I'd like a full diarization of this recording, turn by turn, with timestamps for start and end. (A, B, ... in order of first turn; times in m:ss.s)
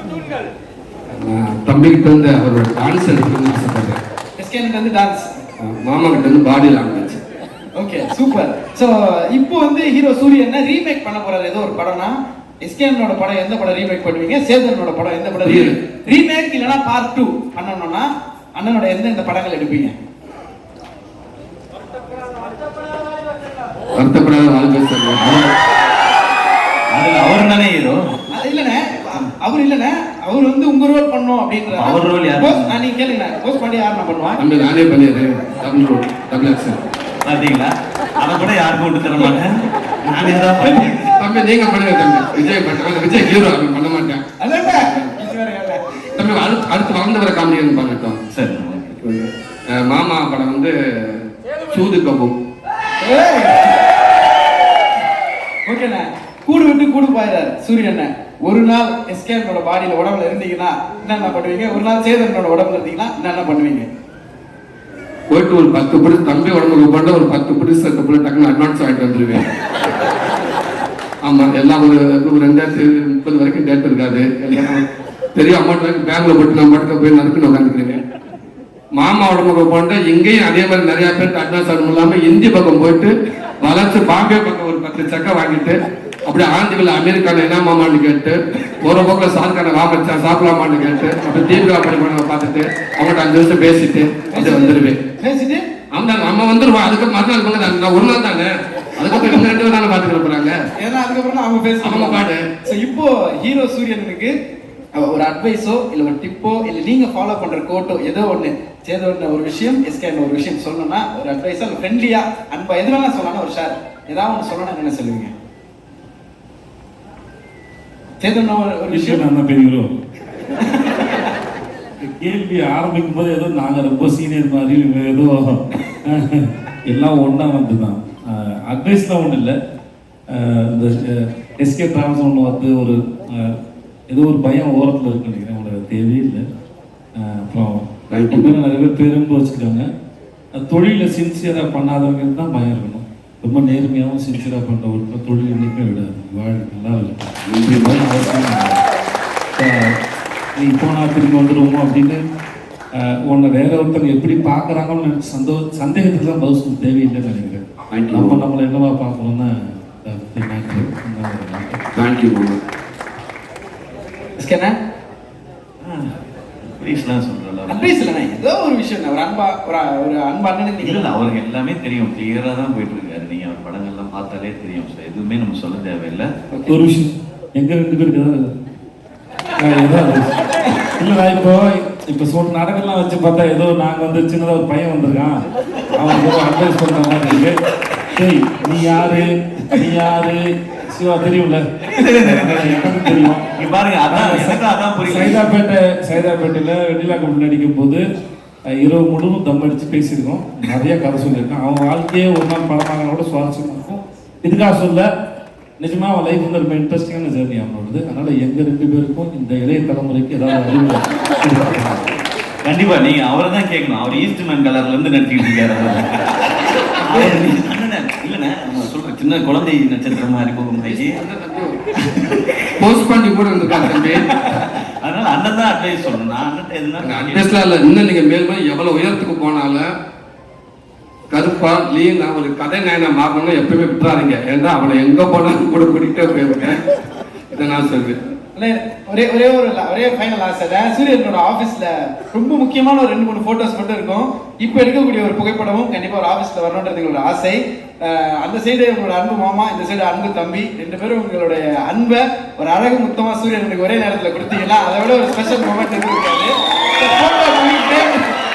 0:01.1-0:04.0 A
0:04.4-0:05.3 B
0:05.6-0:07.2 A
0:07.8-0:19.9 B
0:15.4-0:15.8 A
0:24.0-0:25.5 A
0:26.9-0:28.0 C
0:28.3-0:34.4 B
0:31.7-0:32.8 C
0:34.4-0:36.8 A
0:37.2-0:41.1 C
0:41.2-0:45.2 A
0:44.4-0:45.8 B
0:46.2-0:48.2 A
0:48.3-0:49.0 C
0:49.0-0:52.3 A
0:53.0-0:53.7 B
0:55.7-1:03.9 B
1:05.3-1:09.4 A
1:11.2-1:14.8 A
1:15.3-1:18.0 A
1:19.0-1:35.0 A
1:34.3-1:35.6 B
1:35.9-1:40.6 A
1:39.1-1:39.5 B
1:40.8-1:44.3 B
1:41.8-1:42.4 A
1:45.0-1:55.3 B
1:58.2-1:59.2 B
1:58.9-1:59.9 D
2:00.6-2:01.0 B
2:02.0-2:09.5 D
2:10.3-2:13.5 D
2:14.1-2:16.4 D
2:17.2-2:19.8 D
2:18.1-2:18.5 A
2:20.6-2:28.8 D
2:27.4-2:28.0 A
2:29.6-2:29.9 D
2:30.6-2:32.2 D
2:33.0-2:41.8 D
2:37.9-2:38.4 A
2:41.9-2:42.6 A
2:44.4-2:44.7 B
2:45.8-2:46.1 C
2:46.6-2:48.0 C
2:47.7-2:51.1 B
2:50.8-2:56.3 C
2:56.7-2:58.4 D
2:59.6-3:00.3 D
3:01.0-3:05.4 D
3:05.9-3:07.5 D
3:08.1-3:13.4 D
3:11.9-3:15.4 C
3:14.1-3:18.0 D
3:18.8-3:25.0 D
3:25.8-3:32.1 D
3:32.6-3:36.4 C
3:37.0-3:41.2 C
3:40.9-3:41.8 A
3:42.8-3:44.6 A
3:43.8-3:47.5 C
3:47.0-3:49.9 A
3:51.3-3:56.8 A
3:57.5-3:58.2 A
3:58.5-4:18.3 B